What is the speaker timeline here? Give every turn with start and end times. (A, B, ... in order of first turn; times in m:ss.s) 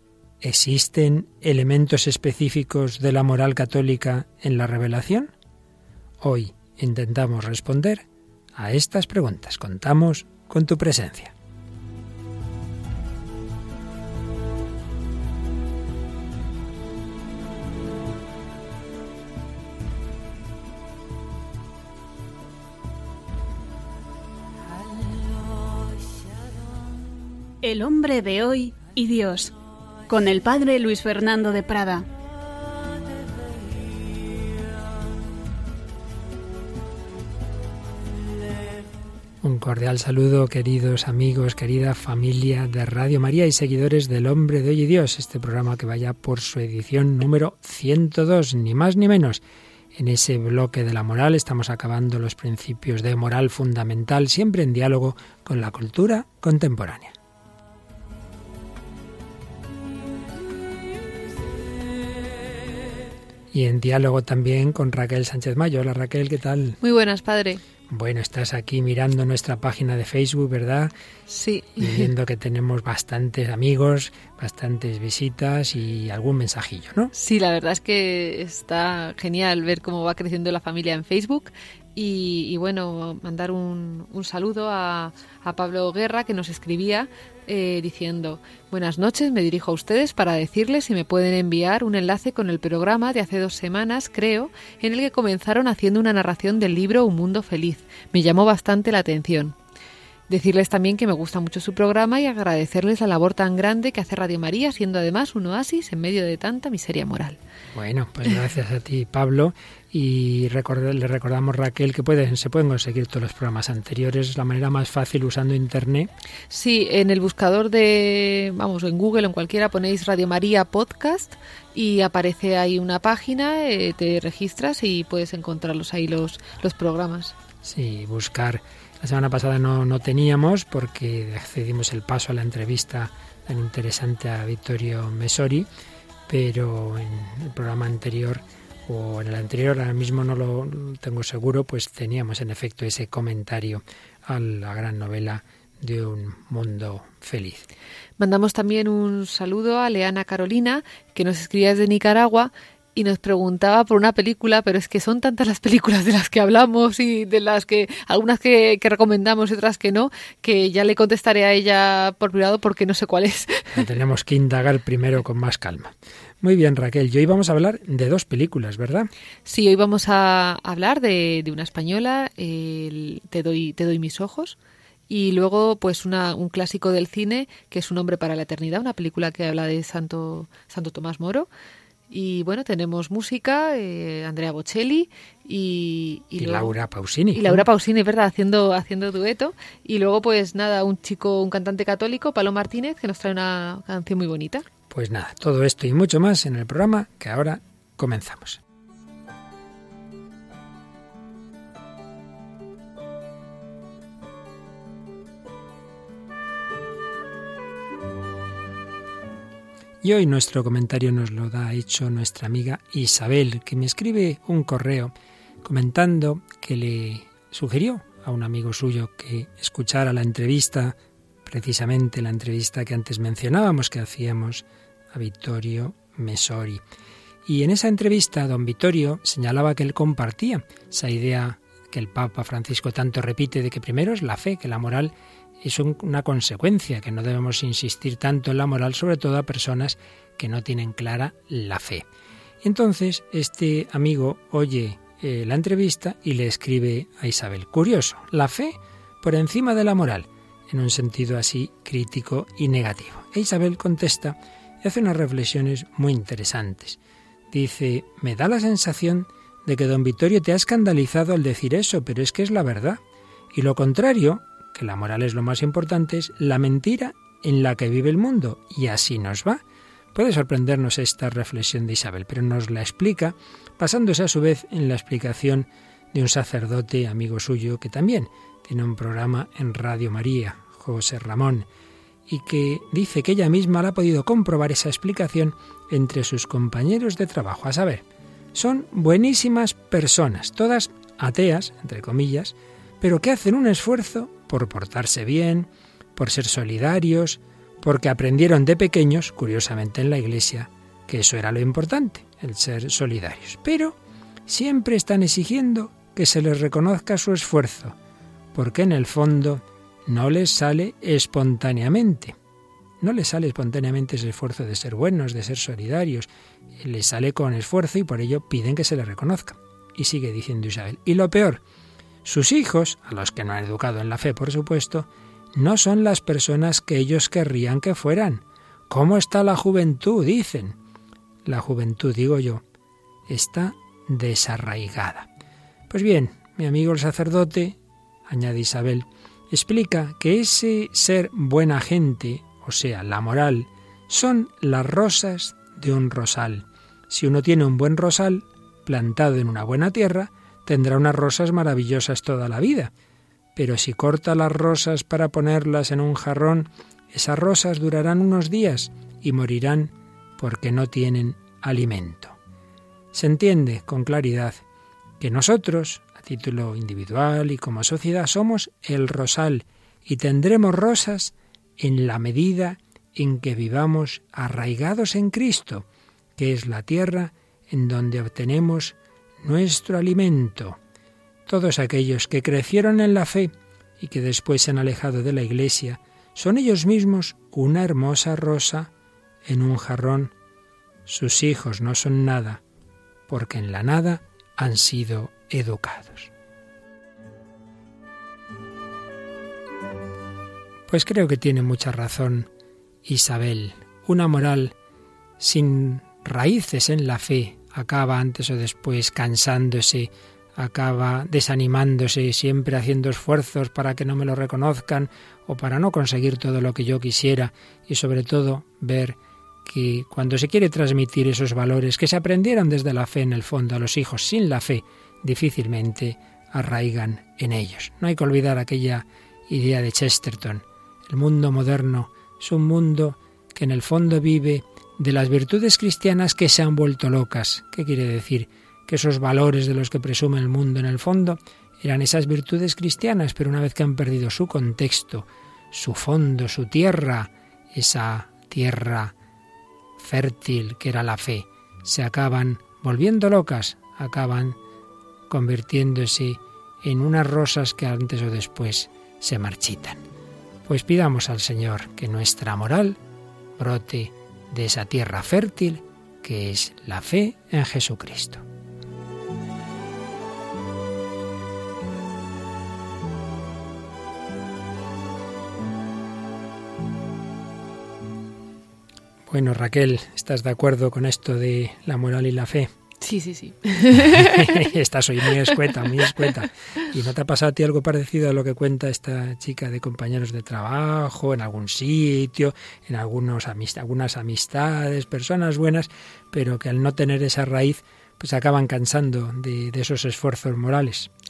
0:00.4-0:05.3 A
0:06.2-0:08.0 A
0:08.6-0:11.3 A
0:27.6-0:29.5 B
0:30.1-0:32.1 B
0:39.4-0:49.4 A
0:50.0-0:57.2 A
1:03.5-1:06.8 A
1:06.8-1:07.6 C
1:07.9-1:10.9 A
1:11.3-1:12.1 C
1:11.8-1:17.1 A
1:17.1-1:39.6 C
1:40.3-1:47.4 C
1:47.7-1:56.1 A
1:56.5-2:07.4 C
2:07.6-2:15.7 A
2:16.3-2:27.7 A
2:28.2-2:43.8 C
2:43.7-2:49.1 A
2:49.5-2:54.6 C
2:55.1-3:01.5 C
3:02.1-3:06.8 C
3:06.4-3:07.6 A
3:07.3-3:14.7 C
3:14.9-3:18.6 A
3:30.0-3:35.1 A
3:35.6-3:46.8 A
3:47.5-4:02.0 A
4:02.6-4:17.0 A
4:17.5-4:23.0 A
4:23.5-4:29.6 A
4:30.1-4:41.7 A
4:42.3-5:04.0 A
5:04.5-5:08.0 A
5:08.6-5:12.4 A
5:13.0-5:16.3 A
5:16.8-5:21.6 A
5:22.2-5:30.8 A
5:31.5-5:32.6 A
5:33.3-5:35.3 A
5:35.9-5:52.9 A
5:53.6-6:02.4 A
6:03.1-6:04.6 A
6:05.2-6:15.8 A
6:16.4-6:20.8 A
6:21.5-6:28.9 A
6:29.5-6:30.3 A
6:31.1-6:32.6 A
6:33.3-6:36.3 A
6:40.9-6:42.5 A
6:43.0-6:44.8 A
6:45.4-7:29.1 A
7:30.0-7:34.6 A
7:35.3-7:40.0 A
7:40.7-7:43.0 A
7:43.6-7:48.4 A
7:59.3-8:02.7 A
8:03.0-8:04.7 C
8:04.1-8:21.1 A